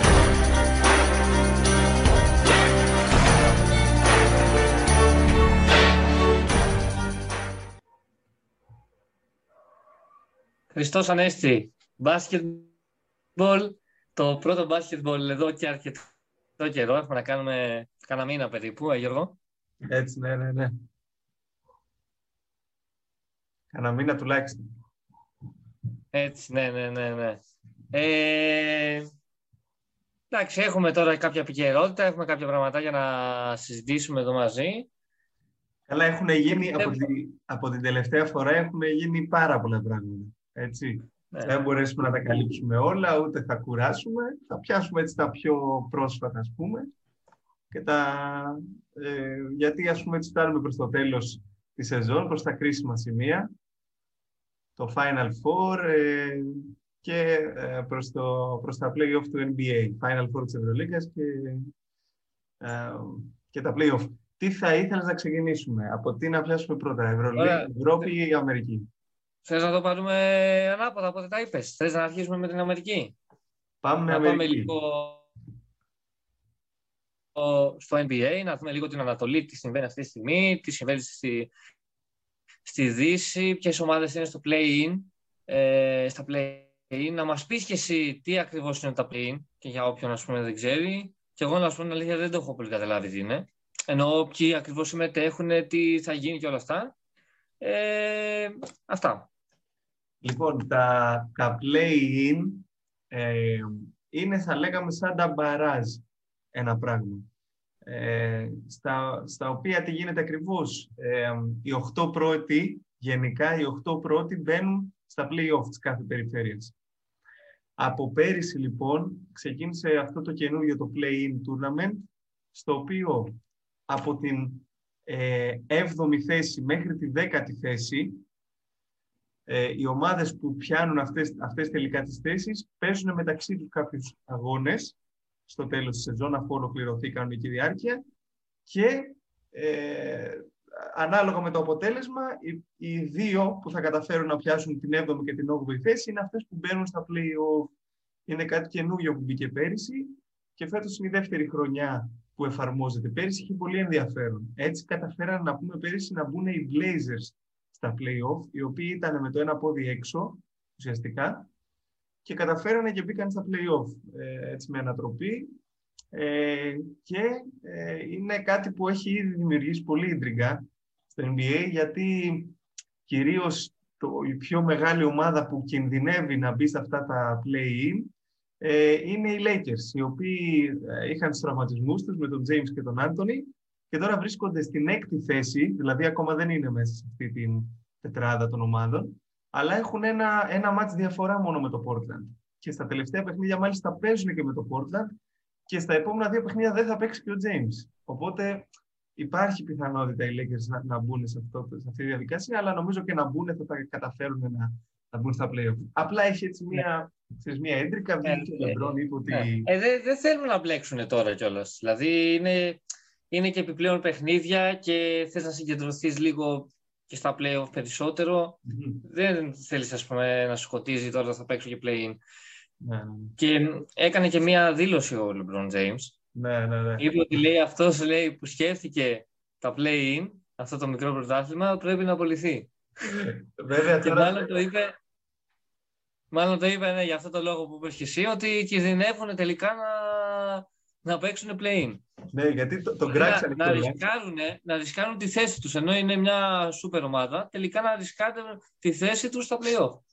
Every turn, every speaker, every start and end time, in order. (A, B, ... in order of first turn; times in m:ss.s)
0:10.7-0:12.7 A
0:13.4-0:16.0 A
0:16.6-0:19.4 A
0:19.8-0:20.7 B
0:23.7-0:24.6 B
0:26.1-0:27.4 A
0:27.9-0:29.1 A
0:30.3-0:34.9 A
0:35.9-0:46.9 B
0:36.6-0:37.1 A
0:41.3-0:41.6 A
0:47.7-0:53.5 B
0:54.8-1:01.7 B
1:02.6-1:08.9 B
1:07.3-1:08.1 A
1:09.4-1:13.1 A
1:13.8-1:14.7 B
1:14.1-1:15.3 A
1:17.3-1:21.5 A
1:22.6-1:36.9 A
1:37.6-1:39.3 A
1:40.2-1:46.0 B
1:46.5-1:47.3 B
1:47.8-1:56.7 B
1:57.8-2:03.3 B
2:03.9-2:08.2 B
2:09.5-2:18.0 B
2:18.7-2:27.7 B
2:28.3-2:41.5 B
2:42.2-2:45.5 B
2:46.1-2:52.5 B
2:53.1-2:58.1 B
2:58.6-3:15.2 B
3:15.7-3:29.7 B
3:28.2-3:42.2 A
3:38.6-3:39.0 B
3:42.8-3:43.4 B
3:43.4-3:46.2 A
3:46.3-3:47.1 B
3:47.0-3:52.7 A
3:53.0-3:54.6 B
3:54.0-3:54.9 A
3:56.3-4:02.0 A
4:02.3-4:04.0 B
4:03.0-4:10.0 A